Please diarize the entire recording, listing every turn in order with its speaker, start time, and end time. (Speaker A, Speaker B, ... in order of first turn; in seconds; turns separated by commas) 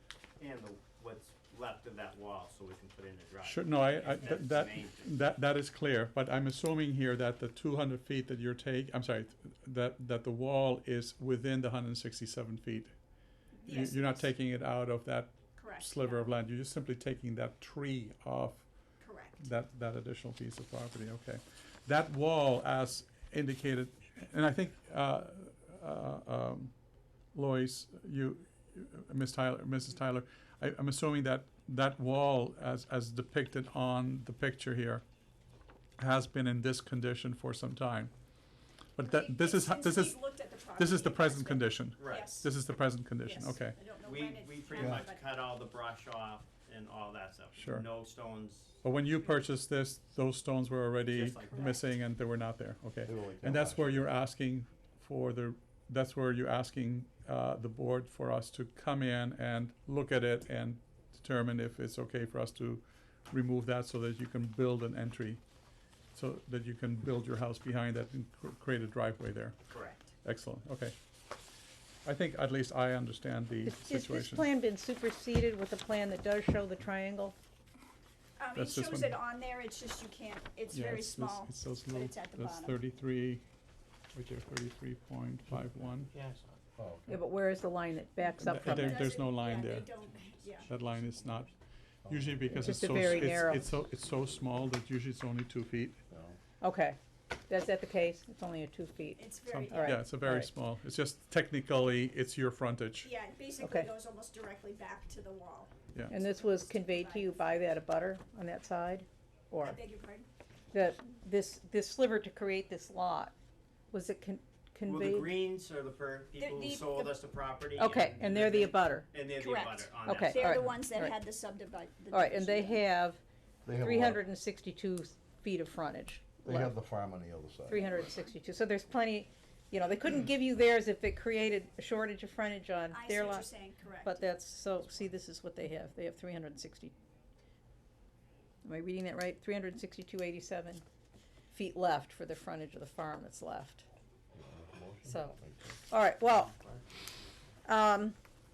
Speaker A: 0.4-5.2, Speaker B: 3.4-12.9, Speaker C: 13.6-14.3, Speaker B: 13.7-18.7, Speaker C: 15.5-16.3, Speaker C: 19.0-19.4, Speaker B: 19.4-26.7, Speaker B: 27.3-35.0, Speaker B: 36.0-38.1, Speaker B: 39.0-40.2, Speaker C: 39.0-42.5, Speaker B: 40.7-43.8, Speaker A: 42.0-42.4, Speaker C: 43.2-45.2, Speaker A: 43.9-48.8, Speaker D: 44.8-45.0, Speaker B: 47.5-47.9, Speaker B: 48.8-65.4, Speaker A: 51.0-51.9, Speaker D: 53.0-54.1, Speaker B: 66.1-69.6, Speaker A: 69.7-70.1, Speaker B: 70.2-70.9, Speaker B: 72.0-74.5, Speaker E: 73.6-77.3, Speaker C: 78.4-82.8, Speaker B: 78.5-79.2, Speaker B: 80.7-83.4, Speaker B: 84.1-86.1, Speaker A: 86.1-86.5, Speaker D: 86.8-87.2, Speaker E: 87.1-89.1, Speaker B: 88.4-90.0, Speaker C: 88.6-90.7, Speaker B: 90.6-91.5, Speaker D: 92.0-93.5, Speaker B: 92.1-96.0, Speaker E: 92.5-93.7, Speaker D: 96.1-96.4, Speaker E: 96.6-100.5, Speaker C: 99.2-100.0, Speaker B: 99.4-103.1, Speaker C: 103.0-107.6, Speaker E: 103.6-103.9, Speaker E: 106.1-109.8, Speaker C: 109.6-110.3, Speaker E: 110.7-113.3, Speaker E: 113.9-115.3, Speaker A: 114.8-120.8, Speaker C: 116.4-117.2, Speaker E: 117.7-119.1, Speaker C: 119.3-122.8, Speaker E: 120.0-121.1, Speaker E: 122.1-123.2, Speaker D: 123.6-124.2, Speaker E: 123.8-126.7, Speaker D: 126.4-128.1, Speaker E: 127.7-133.5, Speaker C: 132.9-134.4, Speaker E: 134.0-136.9, Speaker E: 138.6-140.8, Speaker E: 141.5-143.8, Speaker D: 144.3-145.8, Speaker E: 145.1-145.3, Speaker E: 145.9-146.5, Speaker E: 147.7-148.2